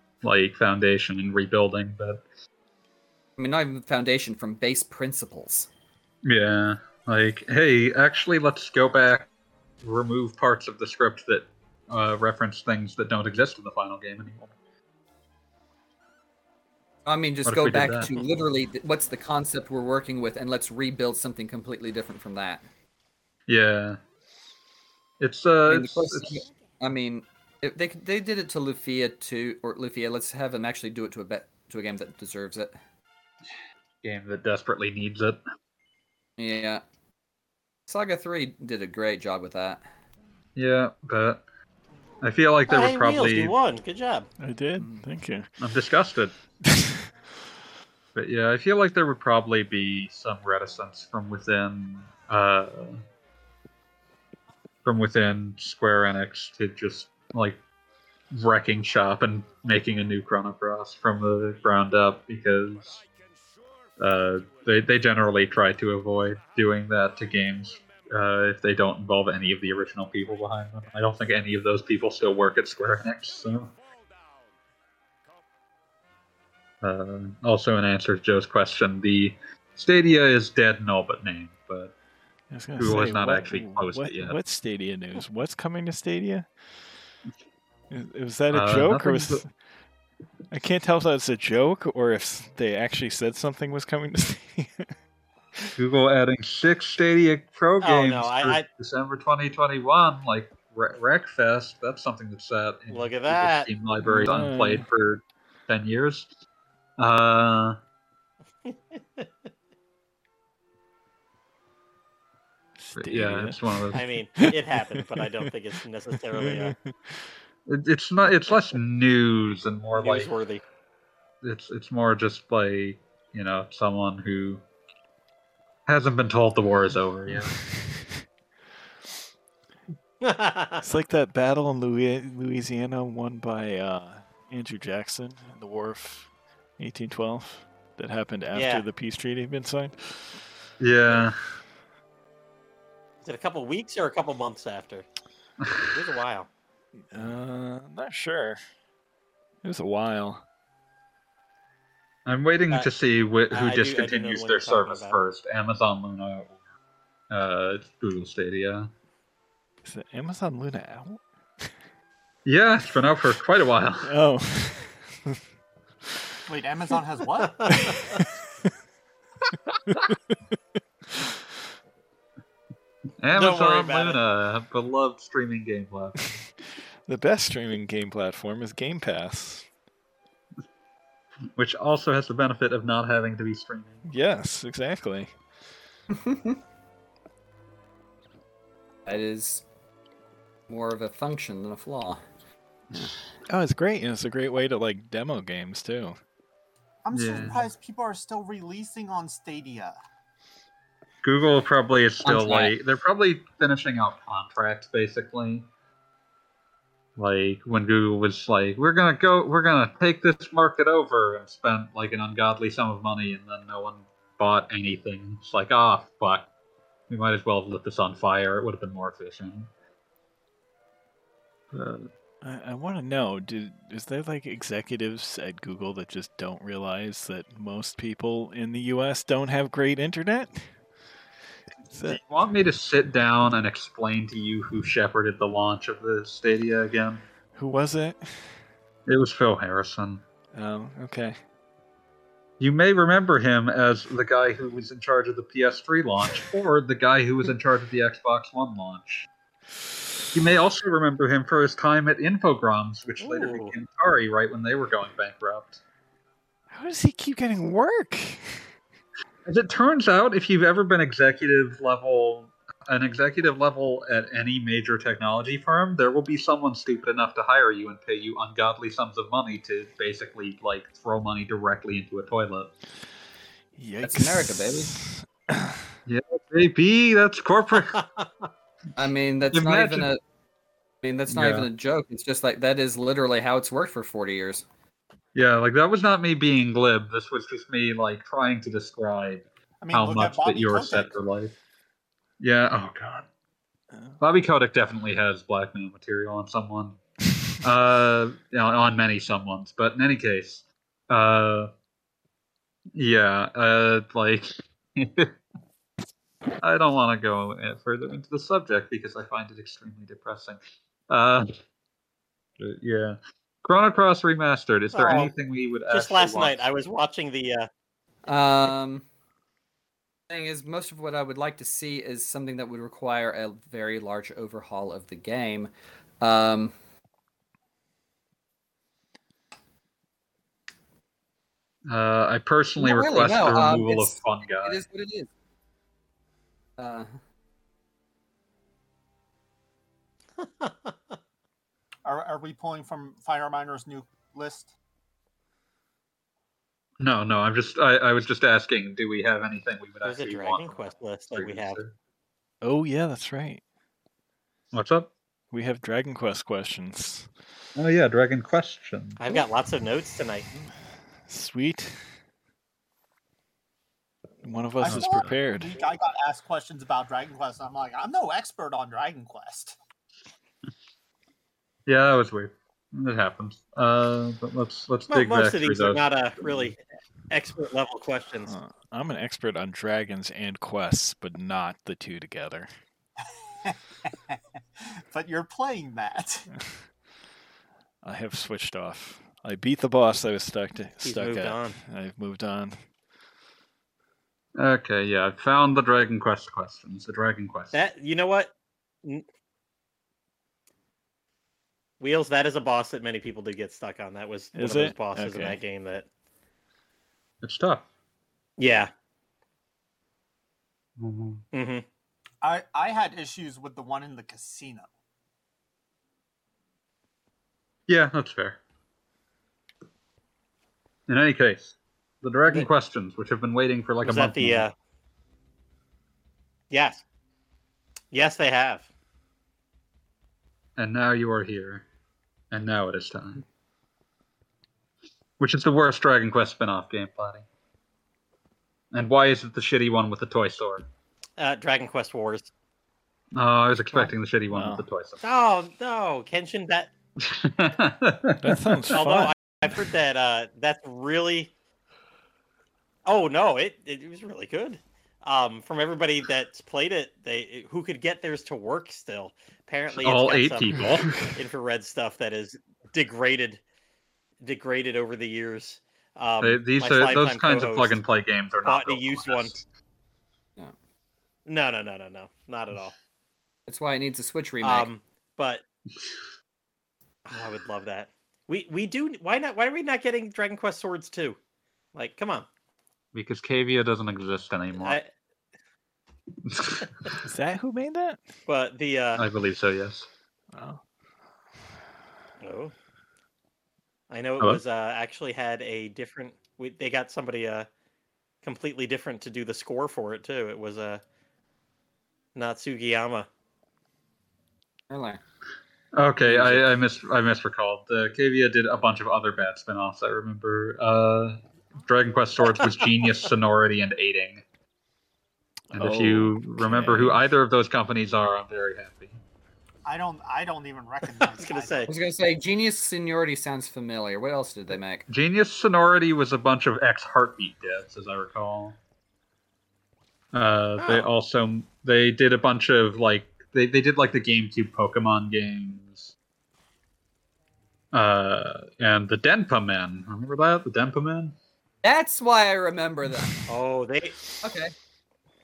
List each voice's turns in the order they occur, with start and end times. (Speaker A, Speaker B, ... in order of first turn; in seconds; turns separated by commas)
Speaker A: 0.2-2.2, Speaker B: 3.4-5.7, Speaker A: 6.2-9.3, Speaker A: 9.8-14.6, Speaker B: 17.1-22.6, Speaker A: 17.4-18.1, Speaker A: 23.5-24.0, Speaker A: 25.2-26.4, Speaker B: 25.7-32.7, Speaker A: 34.0-35.4, Speaker B: 36.4-36.8, Speaker B: 37.9-39.8, Speaker A: 40.6-41.4, Speaker A: 42.2-43.5, Speaker C: 42.7-44.3, Speaker D: 44.4-45.5, Speaker B: 44.8-45.1, Speaker A: 45.6-46.4, Speaker A: 48.1-53.0, Speaker A: 54.9-57.6, Speaker A: 58.3-63.0, Speaker A: 64.0-73.7, Speaker A: 76.8-82.0, Speaker D: 82.5-86.8, Speaker A: 82.8-84.4, Speaker D: 87.9-89.5, Speaker A: 88.5-89.4, Speaker D: 90.5-94.9, Speaker A: 95.8-106.3, Speaker C: 97.8-98.7, Speaker C: 102.9-103.7, Speaker D: 104.0-104.8, Speaker A: 107.0-107.8, Speaker C: 108.7-109.3, Speaker D: 112.8-115.3, Speaker A: 113.0-114.0, Speaker C: 113.9-116.8, Speaker D: 116.4-117.3, Speaker A: 117.7-120.3, Speaker C: 120.0-120.6, Speaker A: 121.4-124.6, Speaker A: 125.9-127.6, Speaker D: 127.3-128.1, Speaker C: 130.2-130.8, Speaker D: 130.8-140.4, Speaker C: 138.5-138.8, Speaker A: 140.8-141.4, Speaker C: 143.2-145.1, Speaker A: 145.6-145.9, Speaker C: 145.9-146.5, Speaker D: 147.1-148.6, Speaker D: 149.6-150.4, Speaker A: 152.3-156.6, Speaker C: 153.5-155.2, Speaker A: 157.3-158.9, Speaker D: 159.8-161.7, Speaker A: 162.4-164.1, Speaker D: 164.0-165.4, Speaker E: 166.5-167.9, Speaker C: 167.4-168.2, Speaker D: 169.9-170.3, Speaker A: 173.2-176.3, Speaker C: 173.3-174.2, Speaker D: 177.1-179.7, Speaker A: 181.6-184.0, Speaker D: 184.1-185.4, Speaker B: 186.1-186.6, Speaker B: 189.1-189.7, Speaker B: 190.7-192.2, Speaker D: 193.5-196.2, Speaker E: 197.1-200.0, Speaker A: 197.1-197.6, Speaker A: 201.2-205.7, Speaker B: 202.2-202.7, Speaker A: 207.2-216.5, Speaker A: 217.1-219.7, Speaker A: 221.7-222.1, Speaker D: 222.4-230.8, Speaker D: 231.9-232.2, Speaker A: 232.0-237.2, Speaker D: 237.6-238.6, Speaker A: 239.1-240.2, Speaker D: 240.5-241.4, Speaker A: 242.6-249.3, Speaker A: 250.3-255.8, Speaker C: 253.2-253.7, Speaker D: 256.7-258.7, Speaker A: 259.4-272.7, Speaker D: 273.8-275.9, Speaker B: 274.0-274.9, Speaker A: 276.1-278.0, Speaker C: 277.9-278.5, Speaker B: 279.0-280.2, Speaker A: 279.5-280.1, Speaker B: 281.0-284.6, Speaker A: 281.3-281.7, Speaker A: 285.3-291.5, Speaker E: 289.8-291.2, Speaker A: 292.4-293.3, Speaker D: 293.9-294.2, Speaker A: 294.2-297.0, Speaker A: 297.6-301.7, Speaker A: 302.9-305.4, Speaker A: 306.6-311.5, Speaker A: 312.6-316.6, Speaker C: 314.9-315.3, Speaker C: 315.9-317.7, Speaker B: 318.3-319.0, Speaker B: 320.3-326.7, Speaker A: 331.9-334.8, Speaker B: 332.8-335.3, Speaker B: 336.8-337.1, Speaker C: 340.4-341.2, Speaker E: 342.1-344.7, Speaker A: 347.0-351.9, Speaker C: 350.0-351.8, Speaker D: 352.6-353.6, Speaker A: 354.7-355.1, Speaker D: 355.5-357.3, Speaker A: 357.8-359.2, Speaker C: 359.2-360.5, Speaker D: 361.3-362.2, Speaker D: 364.4-365.7, Speaker A: 364.8-365.4, Speaker E: 364.8-369.8, Speaker A: 371.9-376.7, Speaker C: 375.1-376.8, Speaker C: 377.3-378.6, Speaker D: 378.5-382.7, Speaker E: 383.2-386.5, Speaker D: 388.0-392.8, Speaker C: 391.0-391.8, Speaker A: 394.6-397.7, Speaker C: 397.7-399.2, Speaker C: 402.0-406.1, Speaker D: 404.6-405.6, Speaker A: 407.4-407.8, Speaker C: 408.6-408.9, Speaker A: 411.0-411.4, Speaker C: 411.5-411.9, Speaker E: 412.4-414.9, Speaker A: 417.9-418.6, Speaker A: 421.1-424.7, Speaker C: 424.0-424.7, Speaker C: 426.7-427.0, Speaker C: 428.1-428.9, Speaker A: 430.8-431.9, Speaker A: 432.5-433.4, Speaker A: 435.4-437.4, Speaker A: 438.9-440.9, Speaker C: 441.4-442.5, Speaker A: 443.3-445.2, Speaker D: 444.5-444.9, Speaker C: 445.2-446.9, Speaker A: 447.2-449.0, Speaker D: 448.4-449.3, Speaker C: 448.9-451.5, Speaker C: 453.1-463.6, Speaker A: 460.0-461.1, Speaker D: 460.8-461.3, Speaker C: 464.4-468.0, Speaker A: 466.4-469.6, Speaker C: 468.6-469.5, Speaker C: 471.5-472.9, Speaker B: 473.7-474.9, Speaker C: 474.6-475.6, Speaker C: 477.2-481.4, Speaker C: 481.9-482.5, Speaker A: 483.1-485.0, Speaker C: 484.7-485.1, Speaker A: 486.4-487.2, Speaker D: 487.2-488.3, Speaker C: 488.5-489.3, Speaker A: 489.2-490.1, Speaker D: 490.5-490.8, Speaker C: 492.4-492.7, Speaker C: 494.1-497.7, Speaker C: 498.4-501.0, Speaker C: 502.4-503.3, Speaker B: 504.9-505.2, Speaker A: 505.9-514.4, Speaker B: 506.2-506.7, Speaker D: 515.7-517.2, Speaker A: 515.7-519.2, Speaker E: 519.9-521.9, Speaker C: 521.1-521.9, Speaker B: 521.9-525.0, Speaker A: 525.1-528.8, Speaker A: 530.3-536.1, Speaker C: 530.8-531.1, Speaker A: 537.9-541.4, Speaker B: 541.8-543.4, Speaker C: 543.5-544.2, Speaker B: 544.4-544.7